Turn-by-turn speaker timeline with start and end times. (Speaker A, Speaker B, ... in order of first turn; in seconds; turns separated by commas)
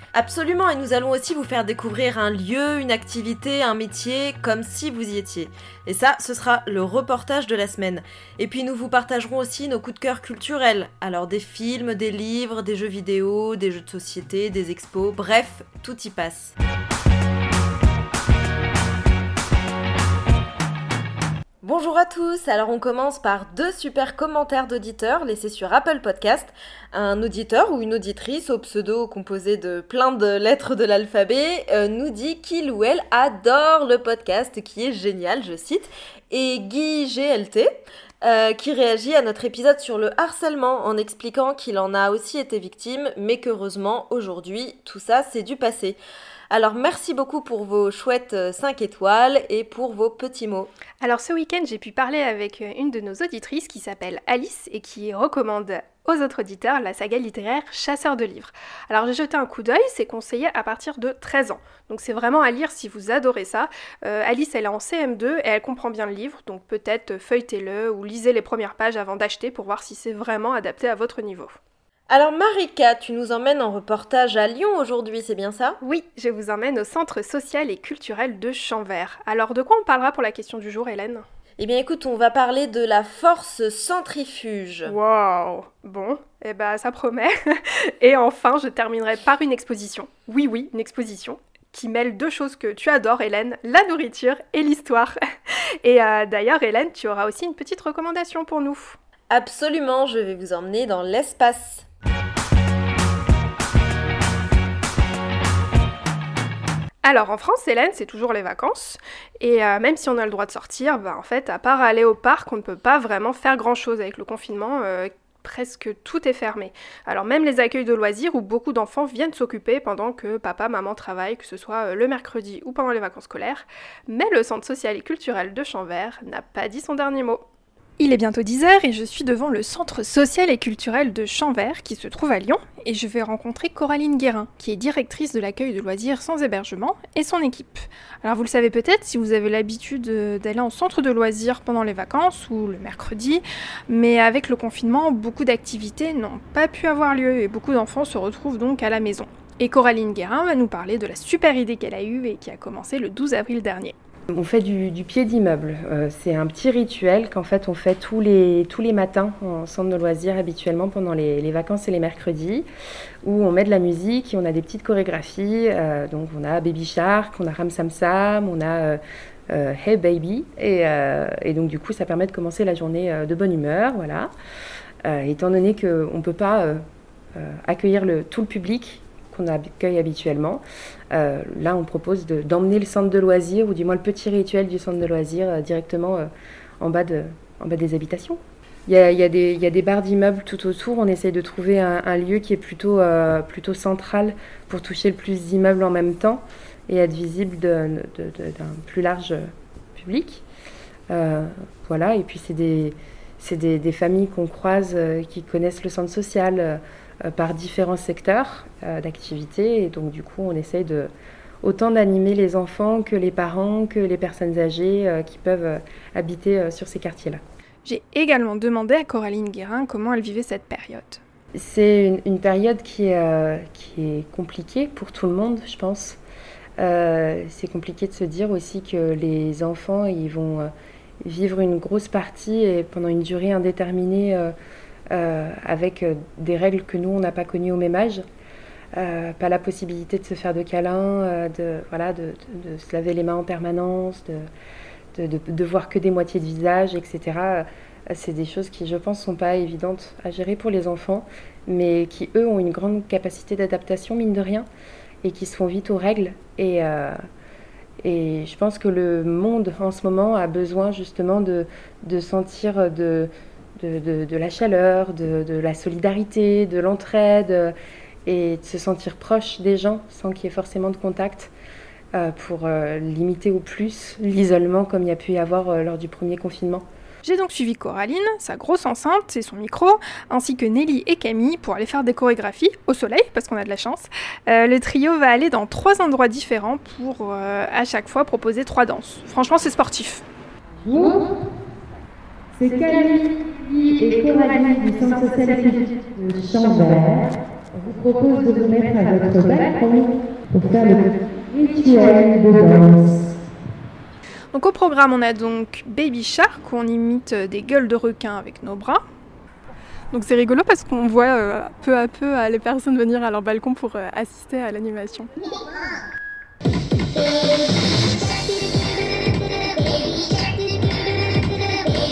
Speaker A: 0.1-16.6, Speaker A: 21.6-37.7, Speaker A: 38.2-46.0, Speaker A: 46.5-50.7, Speaker B: 51.0-71.6, Speaker A: 72.1-75.8, Speaker B: 75.8-81.2, Speaker A: 81.6-84.9, Speaker B: 84.9-95.2, Speaker B: 95.8-99.0, Speaker A: 99.3-101.9, Speaker B: 107.0-127.5, Speaker B: 128.0-153.9, Speaker C: 154.3-162.7, Speaker C: 163.2-169.0, Speaker C: 169.5-174.3, Speaker C: 175.1-176.8, Speaker C: 177.4-186.3, Speaker C: 186.8-200.4, Speaker C: 201.1-211.1, Speaker C: 211.6-217.4, Speaker B: 217.8-221.2, Speaker C: 221.6-226.2, Speaker C: 226.8-230.7, Speaker C: 231.2-234.5, Speaker C: 235.1-238.2, Speaker C: 239.0-244.4, Speaker C: 245.2-254.7, Speaker C: 255.2-257.2, Speaker C: 258.0-267.7, Speaker C: 268.3-271.5, Speaker C: 272.1-276.9, Speaker B: 277.2-290.2, Speaker D: 290.8-291.3, Speaker D: 292.6-303.2, Speaker B: 294.4-295.7, Speaker B: 304.5-309.0, Speaker B: 310.1-315.3